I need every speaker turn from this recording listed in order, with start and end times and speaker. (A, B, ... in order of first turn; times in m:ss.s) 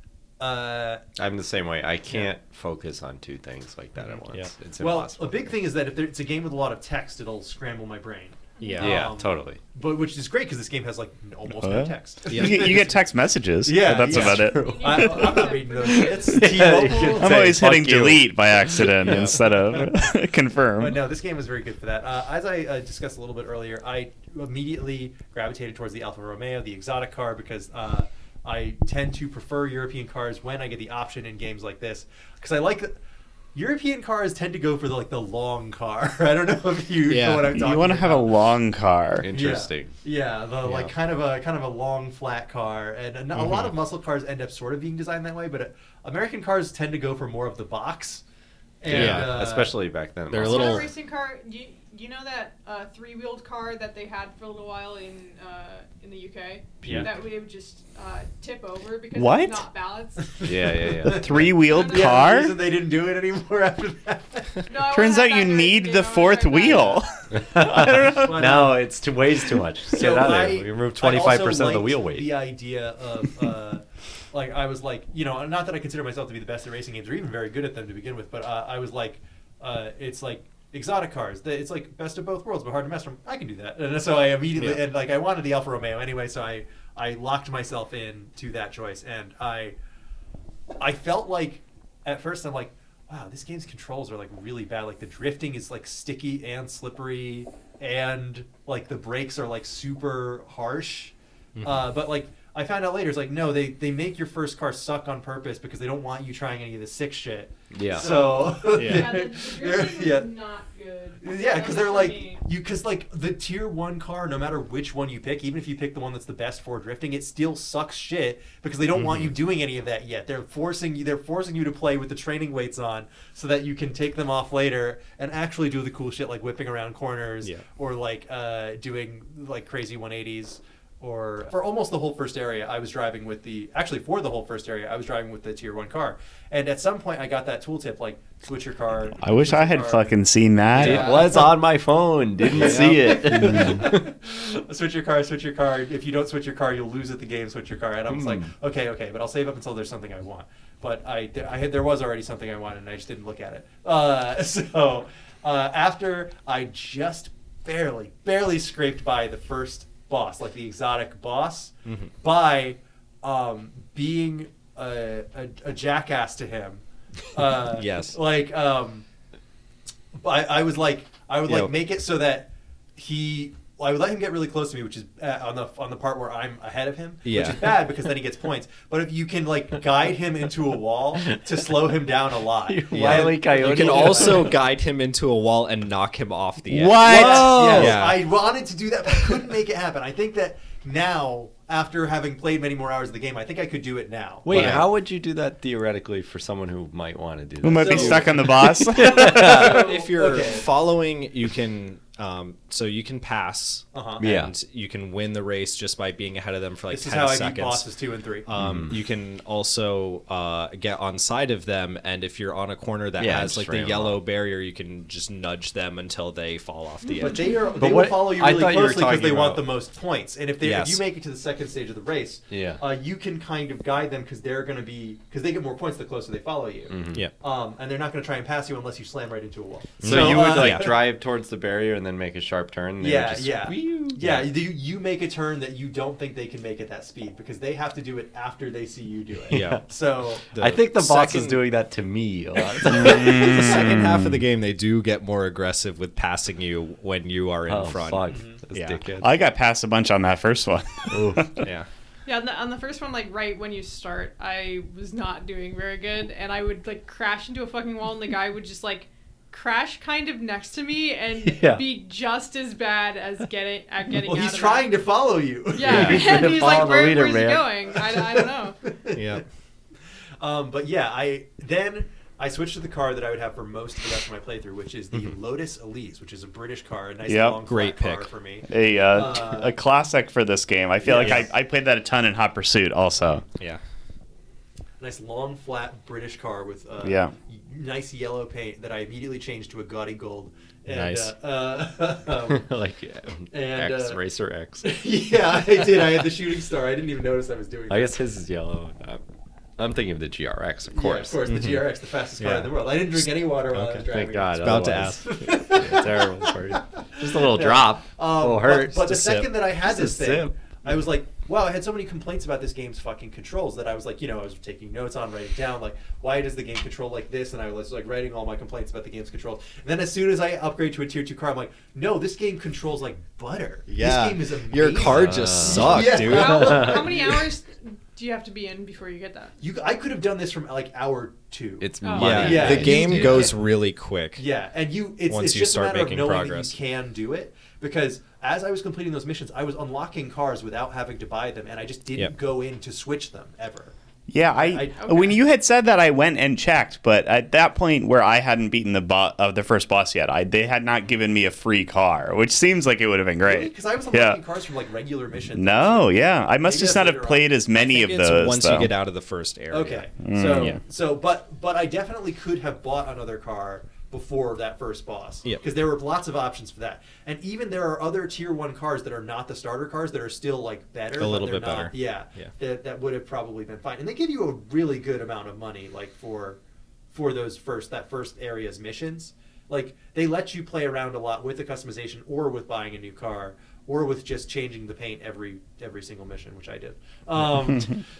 0:00.4-0:01.0 A
0:01.2-0:05.5 B
0:04.8-0:13.0 A
0:08.6-0:08.9 C
0:08.6-0:08.9 D
0:08.8-0:09.6 B
0:11.6-0:15.2 E
0:12.3-0:12.8 D
0:13.6-0:17.6 A
0:14.3-0:15.4 B
0:14.5-0:17.2 C
0:16.1-0:18.9 B
0:17.2-0:21.0 E
0:19.0-0:19.4 D
0:19.7-0:20.1 A
0:20.8-0:33.0 A
0:33.5-0:38.3 A
0:37.1-0:37.6 D
0:37.5-0:39.3 E
0:39.2-0:39.9 B
0:39.3-0:48.2 A
0:40.6-0:40.9 D
0:48.8-0:49.8 A
0:48.8-0:50.9 B
0:48.9-0:49.4 D
0:50.3-0:50.9 D
0:50.4-1:00.7 C
0:56.8-0:57.1 B
0:59.1-0:59.6 E
1:00.4-1:01.4 B
1:01.0-1:04.5 A
1:01.0-1:02.6 E
1:01.7-1:02.2 C
1:04.7-1:07.0 C
1:04.9-1:08.4 E
1:07.3-1:12.3 B
1:08.0-1:08.8 A
1:09.9-1:29.8 A
1:24.6-1:24.8 D
1:30.8-1:50.3 A
1:41.6-1:41.9 D
1:47.7-1:48.1 B
1:48.0-1:52.4 C
1:48.7-1:49.2 D
1:51.2-2:20.2 A
1:58.9-1:59.3 D
2:19.2-2:21.2 E
2:20.7-2:21.6 A
2:20.8-2:23.9 B
2:22.5-2:23.9 D
2:22.6-2:49.0 A
2:23.4-2:23.8 E
2:28.1-2:28.5 B
2:41.8-2:42.1 D
2:47.7-2:48.2 D
2:50.1-3:04.6 A
2:51.5-2:51.7 D
2:57.2-2:57.8 D
3:02.7-3:04.6 B
3:02.9-3:08.2 D
3:06.7-3:07.9 E
3:07.0-3:14.8 A
3:07.2-3:07.9 B
3:14.4-3:19.8 B
3:14.5-3:14.9 D
3:17.6-3:19.7 E
3:17.8-3:18.3 A
3:19.0-3:20.7 A
3:19.0-3:27.9 D
3:23.9-3:24.2 A
3:24.2-3:24.5 B
3:26.9-3:28.5 A
3:28.4-3:37.4 D
3:28.6-3:29.0 B
3:33.2-3:34.2 B
3:37.0-3:37.8 C
3:37.2-3:51.0 A
3:37.8-3:39.7 B
3:40.6-3:41.0 D
3:42.5-3:42.8 B
3:46.9-3:47.2 B
3:50.0-3:50.9 D
3:50.0-3:54.3 B
3:53.0-4:00.4 A
3:59.5-3:59.8 B
3:59.5-3:59.8 D
4:00.5-4:01.6 D
4:00.6-4:03.8 B
4:02.8-4:09.0 D
4:02.9-4:04.4 E
4:07.7-4:09.3 B
4:08.3-4:08.6 A
4:09.2-4:11.6 E
4:11.1-4:11.5 B
4:12.2-4:25.0 C
4:21.4-4:21.8 B
4:24.2-4:26.4 A
4:25.7-4:28.9 C
4:25.8-4:27.7 B
4:25.9-4:26.4 D
4:28.3-4:29.4 A
4:29.1-4:29.4 D
4:30.4-4:39.8 A
4:37.2-4:37.6 E
4:37.6-4:38.3 D
4:38.7-4:43.4 E
4:41.0-4:41.5 A
4:41.1-4:41.5 D
4:45.0-4:52.6 A
4:47.0-4:47.3 E
4:50.9-4:51.3 D
4:52.5-4:54.9 B
4:53.5-4:54.2 A
4:54.8-4:58.2 A
4:57.9-4:59.2 B
4:59.8-5:01.4 B
5:00.9-5:06.5 A
5:01.5-5:01.8 D
5:02.4-5:05.4 D
5:04.1-5:09.0 B
5:07.1-5:27.3 A
5:09.0-5:09.5 D
5:09.8-5:10.5 B
5:23.9-5:26.9 D
5:25.0-5:27.0 B
5:26.1-5:29.5 C
5:29.6-5:33.7 A
5:31.8-5:33.5 B
5:32.0-5:33.4 C
5:32.1-5:34.4 D
5:34.4-5:43.9 A
5:35.3-5:36.8 D
5:44.3-5:54.4 E
5:44.5-5:45.2 A
5:45.0-5:45.3 C
5:53.4-5:57.5 A
5:55.5-5:58.9 E
5:57.7-6:00.1 D
5:59.7-6:16.6 A
6:00.2-6:00.8 E
6:11.2-6:12.5 D
6:17.1-6:28.0 A